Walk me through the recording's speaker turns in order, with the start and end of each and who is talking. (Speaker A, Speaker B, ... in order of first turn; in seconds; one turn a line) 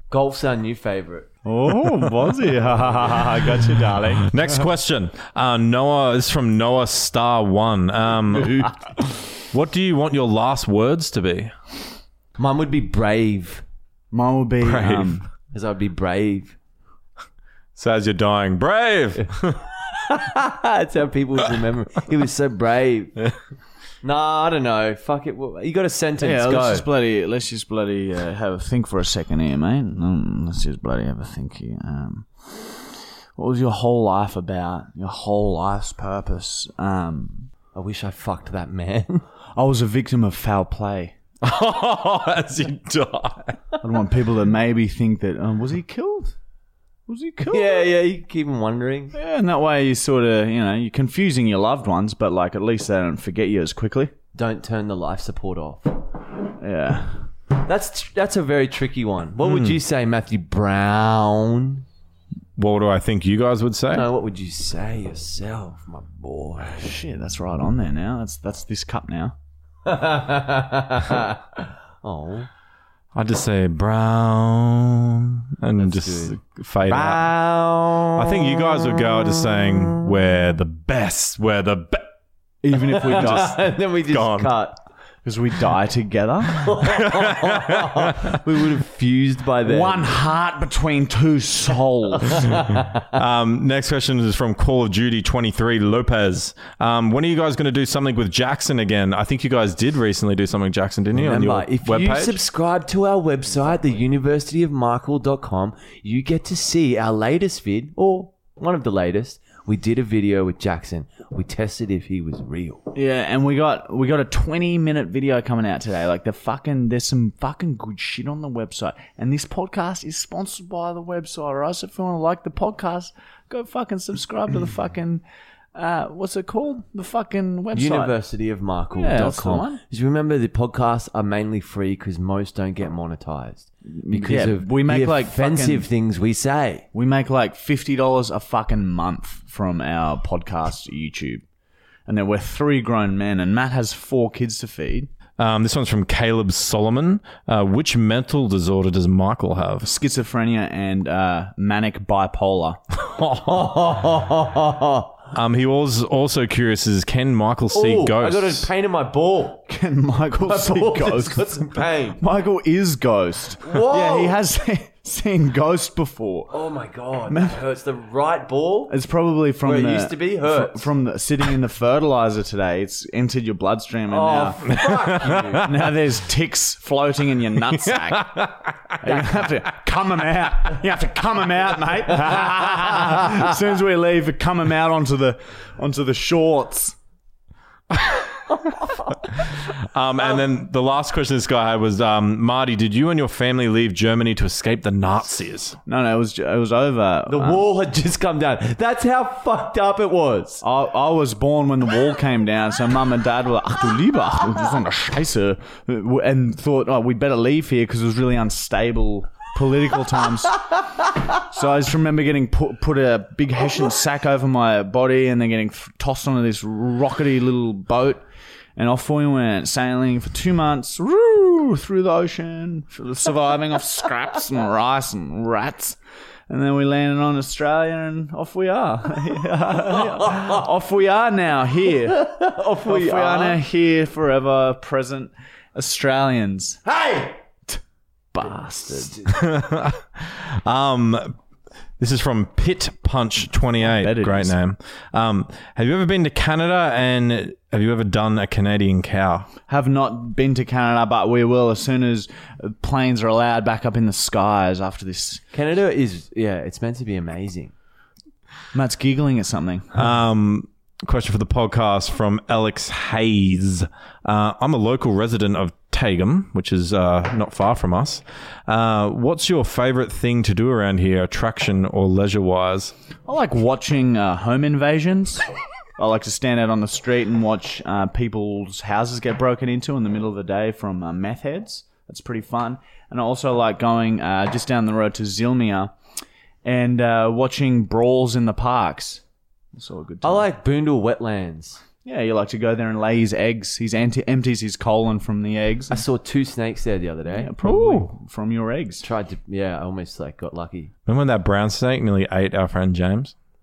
Speaker A: 0.1-1.3
Speaker B: 1.4-4.5
Speaker C: 4.2-8.7
Speaker B: 8.3-8.7
Speaker C: 9.5-11.5
Speaker A: 12.4-13.6
Speaker B: 14.1-15.2
Speaker C: 14.6-15.2
Speaker A: 15.5-16.6
Speaker C: 17.8-19.6
Speaker A: 19.8-23.2
Speaker A: 24.0-26.9
Speaker B: 26.2-37.5
Speaker A: 37.7-39.2
Speaker B: 39.6-41.1
Speaker C: 41.4-43.6
Speaker B: 43.8-46.4
Speaker B: 47.1-47.9
Speaker A: 47.5-49.1
Speaker B: 49.1-54.1
Speaker A: 54.3-56.0
Speaker B: 56.6-57.2
Speaker A: 57.6-61.8
Speaker C: 59.4-59.8
Speaker C: 62.6-64.1
Speaker A: 63.9-66.9
Speaker B: 66.7-69.3
Speaker A: 69.8-72.5
Speaker C: 73.1-77.3
Speaker A: 75.8-80.1
Speaker C: 78.1-82.1
Speaker B: 82.6-83.6
Speaker A: 82.8-84.8
Speaker C: 83.2-83.5
Speaker C: 84.1-84.5
Speaker B: 85.2-86.8
Speaker A: 86.5-90.2
Speaker C: 86.8-88.4
Speaker B: 89.6-92.6
Speaker A: 92.3-93.1
Speaker C: 93.1-102.4
Speaker A: 101.1-112.9
Speaker B: 112.9-125.2
Speaker B: 125.7-128.2
Speaker A: 127.7-136.9
Speaker B: 129.0-129.8
Speaker B: 133.9-135.9
Speaker B: 136.9-141.4
Speaker B: 142.1-145.1
Speaker C: 145.4-149.9
Speaker B: 149.8-152.8
Speaker A: 153.1-155.2
Speaker C: 155.3-158.7
Speaker A: 157.7-159.6
Speaker B: 159.7-166.6
Speaker A: 160.4-162.2
Speaker A: 163.6-164.4
Speaker A: 166.5-168.9
Speaker B: 167.3-167.6
Speaker B: 168.9-174.7
Speaker A: 169.6-170.9
Speaker A: 174.1-175.9
Speaker C: 174.7-175.7
Speaker B: 175.6-178.4
Speaker C: 177.7-179.0
Speaker B: 179.0-187.0
Speaker C: 187.9-188.2
Speaker A: 188.7-189.1
Speaker C: 189.4-195.8
Speaker B: 195.9-197.7
Speaker A: 197.3-200.6
Speaker B: 200.6-210.7
Speaker B: 211.3-218.2
Speaker B: 218.8-226.0
Speaker B: 226.5-232.3
Speaker A: 230.2-230.6
Speaker A: 232.1-233.6
Speaker B: 232.8-236.8
Speaker A: 236.9-237.4
Speaker B: 238.3-239.2
Speaker A: 238.9-239.4
Speaker C: 239.3-241.4
Speaker C: 242.0-249.5
Speaker B: 243.8-244.6
Speaker B: 249.7-255.4
Speaker A: 255.5-257.7
Speaker B: 258.7-260.0
Speaker C: 259.9-272.9
Speaker B: 273.3-275.4
Speaker B: 276.0-285.9
Speaker B: 286.6-289.2
Speaker B: 289.7-290.5
Speaker A: 290.2-291.8
Speaker B: 292.1-296.0
Speaker A: 295.9-297.5
Speaker B: 297.3-299.1
Speaker C: 297.6-298.1
Speaker A: 299.0-300.9
Speaker C: 301.1-303.4